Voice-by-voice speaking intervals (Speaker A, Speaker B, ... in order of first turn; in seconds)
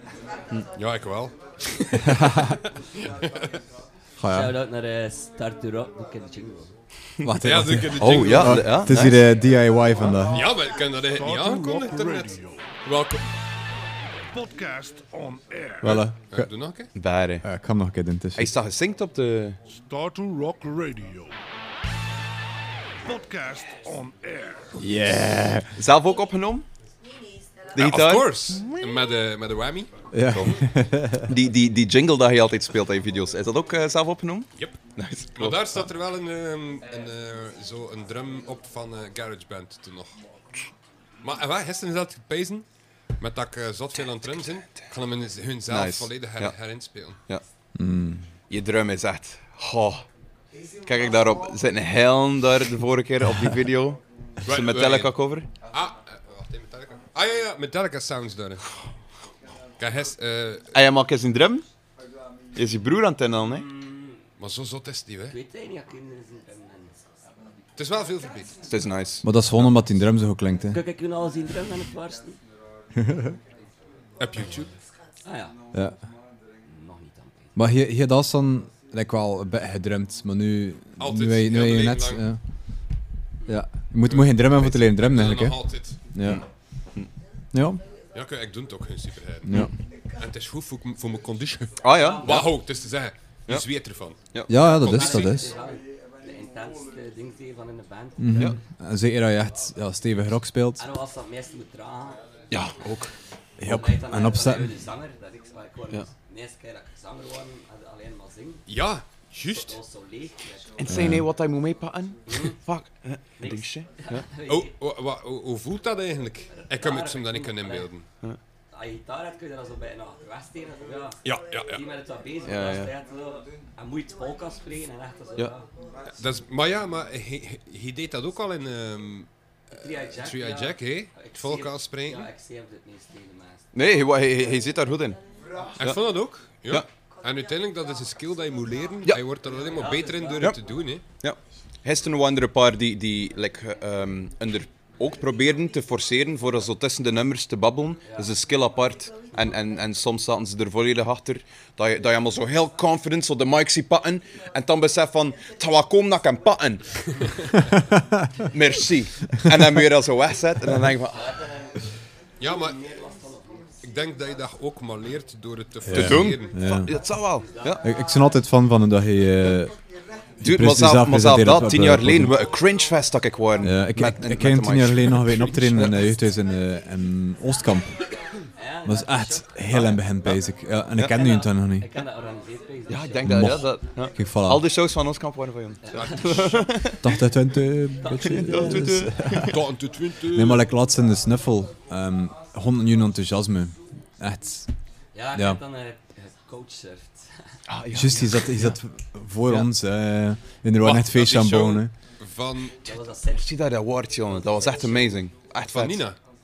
Speaker A: 0.8-3.5, 7.4-8.9, 10.3-13.2, 16.2-16.9, 27.7-29.9, 35.4-40.2, 41.2-42.6, 43.2-47.2, 54.4-55.1, 55.7-58.7, 59.8-60.7, 64.4-65.4, 67.8-68.6, 74.2-74.7, 81.0-82.2, 84.0-86.0, 88.1-95.4, 108.7-109.8, 114.5-118.0, 121.2-121.8, 126.1-129.3, 130.0-132.3, 135.8-141.0, 162.4-162.8, 163.8-166.8, 185.9-186.7, 189.5-190.6, 200.8-202.9, 205.6-206.2
Speaker B: 2.1-2.5, 4.2-4.5, 7.2-10.5, 15.8-16.5, 17.4-18.5, 24.8-25.7, 30.1-31.3, 47.7-48.2, 69.2-70.8, 73.0-73.4, 75.7-76.0, 77.5-82.4, 83.5-86.4, 87.5-87.8, 89.5-89.7, 94.5-95.5, 98.2-100.8, 103.6-104.7, 110.8-111.3, 157.9-158.4, 159.4-159.7, 165.9-166.9, 167.8-169.7, 170.4-172.3, 173.6-177.9, 178.8-181.9, 183.2-184.6, 187.0-189.6, 190.3-194.7, 197.9-201.9
Speaker C: 4.3-6.7, 63.5-64.2, 65.3-67.0, 70.7-72.4, 75.2-75.5, 76.7-77.5, 91.9-92.5, 94.7-98.5, 100.8-102.2, 103.6-108.6, 109.5-110.8, 112.3-112.5, 113.4-114.7, 116.5-117.9, 118.7-125.7, 129.7-133.7, 139.7-140.6, 148.0-148.3, 161.1-161.8, 162.4-163.8, 167.3-167.8, 178.6-179.6, 181.1-183.5, 185.8-186.5, 188.0-188.9, 195.1-197.4, 202.8-203.5, 204.3-205.1
Speaker D: 8.0-9.2, 16.9-17.4, 18.4-19.6, 25.8-26.6, 27.7-28.9, 30.3-30.6, 31.2-35.7, 45.7-46.5, 48.5-50.0, 50.8-55.5, 60.7-61.6, 62.5-63.6, 68.6-69.2, 86.2-87.1, 91.8-92.5, 102.5-103.1, 110.8-114.2, 122.4-122.9, 133.7-135.2, 141.2-156.8, 158.5-161.3, 165.9-167.8, 170.4-176.1, 179.7-180.4, 182.9-187.1, 188.2-189.6, 197.7-198.8, 203.3-206.1
Speaker E: 11.2-12.6, 14.3-16.0, 19.7-21.3, 23.0-24.8